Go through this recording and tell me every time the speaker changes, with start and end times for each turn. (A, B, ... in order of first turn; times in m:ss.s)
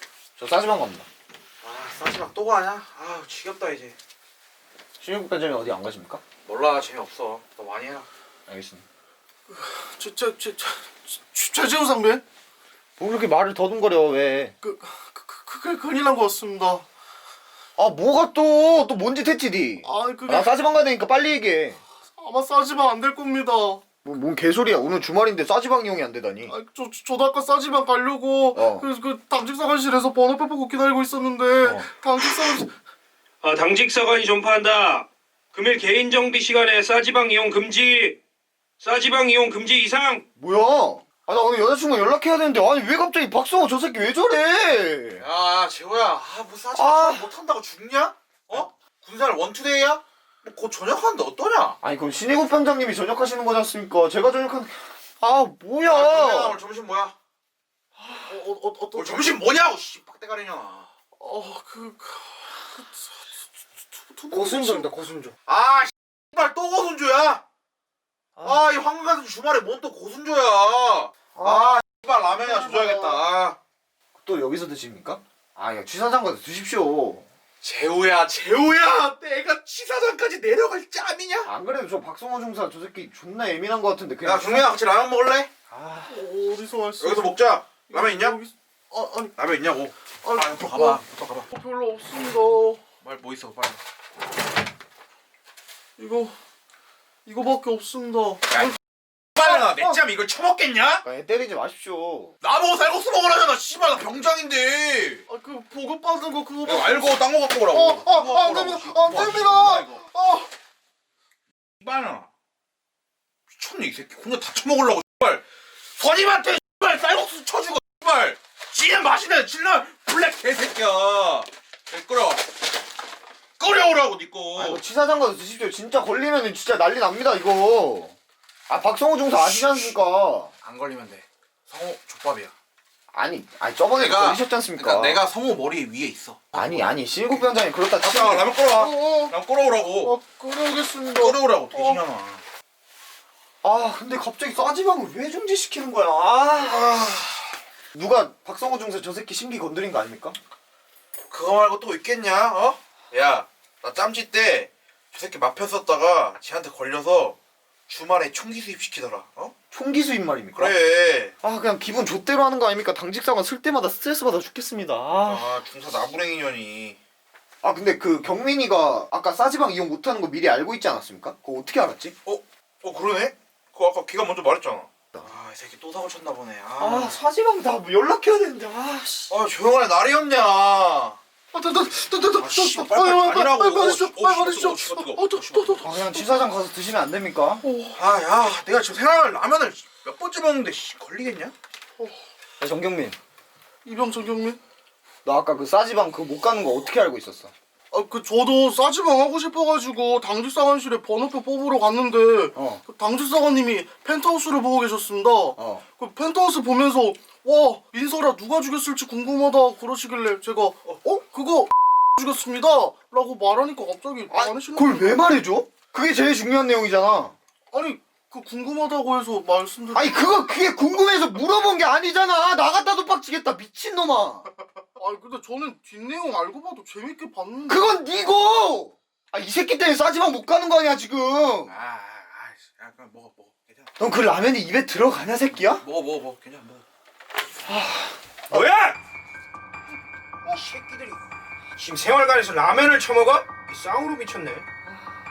0:00.4-0:01.1 A
0:01.6-0:03.9 B
0:05.0-0:06.2 A
0:06.4-0:08.1 B
0:08.5-0:08.8 A
0:09.5-0:12.2 C
0:13.0-0:14.5 A
0:14.6-0:16.8 C
0:17.8-0:21.8 A
0:19.8-0:20.5 C
0:22.2-0:23.8 C
0:24.0-0:26.5 A
0:26.5-0:32.7 C
0:28.5-0:28.9 A
0:33.4-0:38.2 D
0:38.8-0:40.2 D
0:40.4-0:45.2 A
0:45.2-0:51.8 B
0:46.7-0:47.3 A
0:51.8-0:56.6 A
0:55.9-0:57.1 B
0:58.2-0:59.4 C
0:58.9-1:00.9 B
1:01.2-1:03.1 C
1:04.0-1:04.9 C
1:04.3-1:05.3 A
1:05.5-1:07.4 B
1:08.4-1:13.6 B
1:11.3-1:11.8 A
1:12.4-1:13.2 A
1:14.1-1:17.3 A
1:17.6-1:21.5 B
1:21.4-1:24.7 A
1:24.2-1:25.5 B
1:25.7-1:26.1 A
1:26.1-1:29.3 C
1:27.0-1:28.4 B
1:29.4-1:31.4 B
1:30.2-1:31.0 C
1:31.5-1:32.8 C
1:33.0-1:33.8 B
1:36.0-1:36.3 C
1:37.2-1:38.8 C
1:38.5-1:38.8 B
1:39.3-1:41.0 B
1:39.4-1:39.9 C
1:41.0-1:42.3 A
1:42.4-1:45.2 B
1:45.3-1:47.1 C
1:46.6-1:50.0 B
1:47.7-1:50.5 C
1:51.8-1:52.3 B
1:53.5-1:55.4 B
1:56.0-2:02.5 B
2:03.6-2:04.8 B
2:04.5-2:08.2 A
2:08.7-2:10.5 A
2:09.3-2:09.9 B
2:10.6-2:12.5 B
2:13.1-2:15.2 A
2:13.9-2:17.4 B
2:16.5-2:18.6 A
2:18.0-2:20.2 B
2:18.7-2:19.3 C
2:20.0-2:22.0 C
2:21.1-2:22.4 B
2:23.6-2:27.1 A
2:26.6-2:27.4 B
2:27.9-2:30.4 A
2:31.3-2:37.4 B
2:37.9-2:39.5 B
2:39.7-2:40.8 A
2:40.5-2:41.3 B
2:41.4-2:45.6 A
2:45.1-2:47.0 B
2:47.6-2:52.2 A
2:52.2-2:57.2 B
2:56.8-2:59.3 A
2:59.3-3:01.2 B
3:01.5-3:06.2 C
3:02.3-3:05.9 B
3:05.8-3:07.6 A
3:07.6-3:07.9 C
3:07.9-3:11.5 B
3:12.6-3:13.2 A
3:13.8-3:14.6 C
3:15.2-3:17.5 A
3:17.9-3:35.2 C
3:22.6-3:22.8 A
3:25.6-3:25.8 A
3:34.3-3:37.3 A
3:37.7-3:40.2 C
3:39.9-3:44.5 A
3:45.0-3:48.0 C
3:47.7-3:51.7 A
3:51.7-3:53.9 B
3:54.0-3:55.8 A
3:55.7-3:56.8 B
3:57.6-3:58.6 A
3:58.5-3:59.0 D
4:00.4-4:01.2 B
4:01.8-4:04.6 D